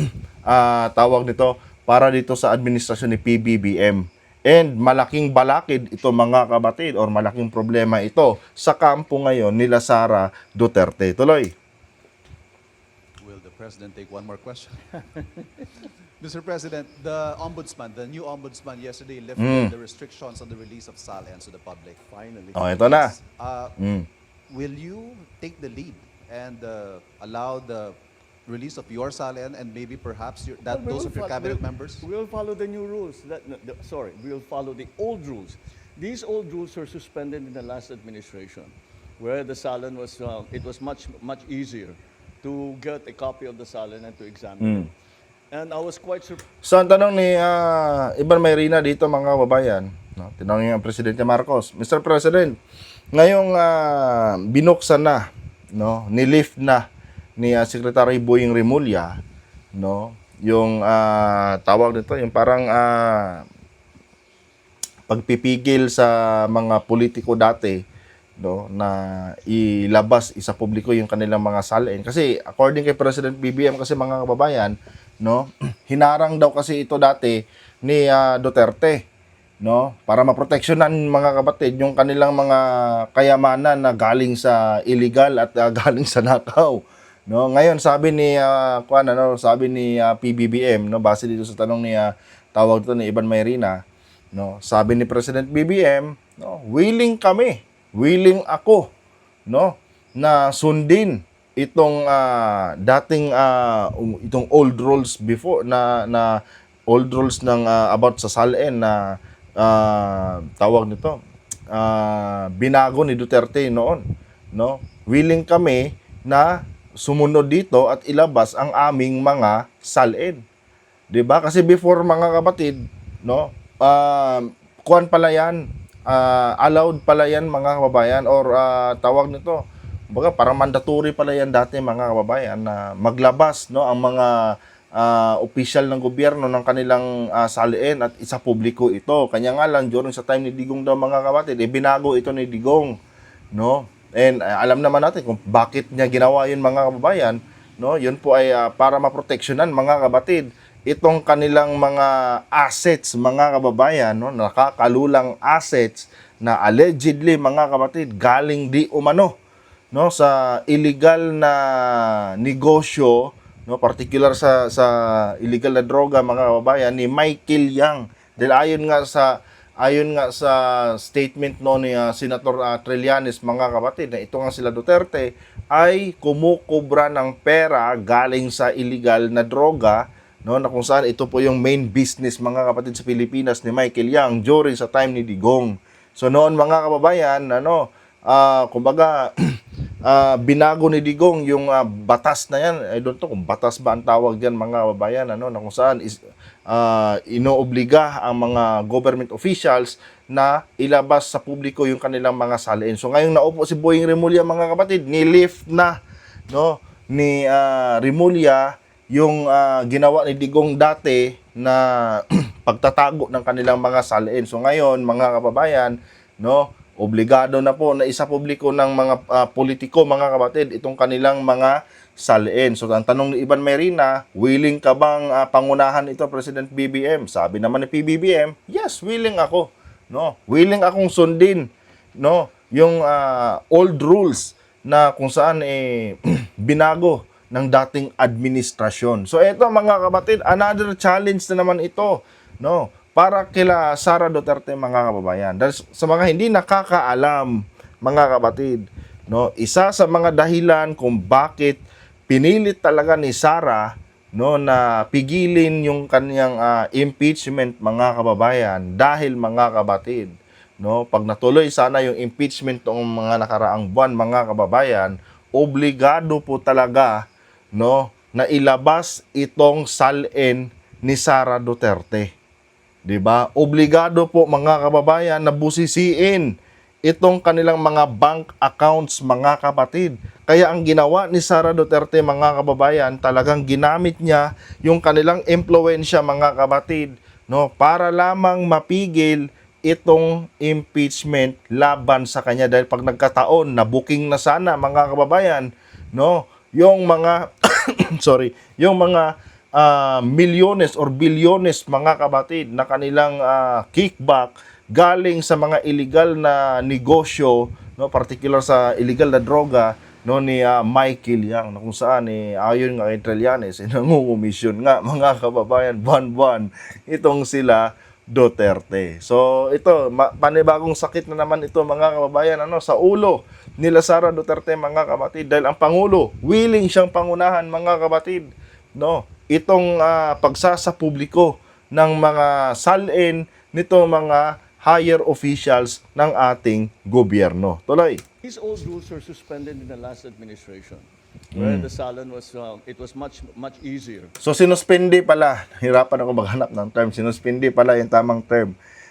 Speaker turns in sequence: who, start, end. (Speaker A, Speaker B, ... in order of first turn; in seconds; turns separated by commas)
Speaker A: 0.5-11.5, Speaker B: 13.2-15.0, Speaker B: 16.2-22.0, Speaker A: 19.4-19.7, Speaker C: 22.1-22.6, Speaker A: 22.6-23.1, Speaker B: 22.8-23.8, Speaker A: 23.8-24.1, Speaker B: 24.5-32.0, Speaker C: 30.6-44.9, Speaker A: 44.6-44.9, Speaker C: 45.5-46.5, Speaker A: 46.6-52.6, Speaker A: 53.1-56.9, Speaker A: 57.4-59.2, Speaker A: 59.7-63.4, Speaker A: 65.1-67.8, Speaker A: 68.4-79.0, Speaker A: 79.6-93.8, Speaker A: 94.3-98.9, Speaker A: 99.5-111.2, Speaker A: 111.7-114.0, Speaker A: 114.5-120.4, Speaker A: 121.1-129.6, Speaker A: 130.1-143.0, Speaker A: 143.5-159.3, Speaker A: 159.9-189.3, Speaker A: 190.1-206.0, Speaker A: 206.5-231.7, Speaker A: 232.2-272.3, Speaker A: 273.1-276.5, Speaker A: 277.1-338.2, Speaker C: 338.4-344.4, Speaker A: 341.6-341.9, Speaker A: 344.4-348.7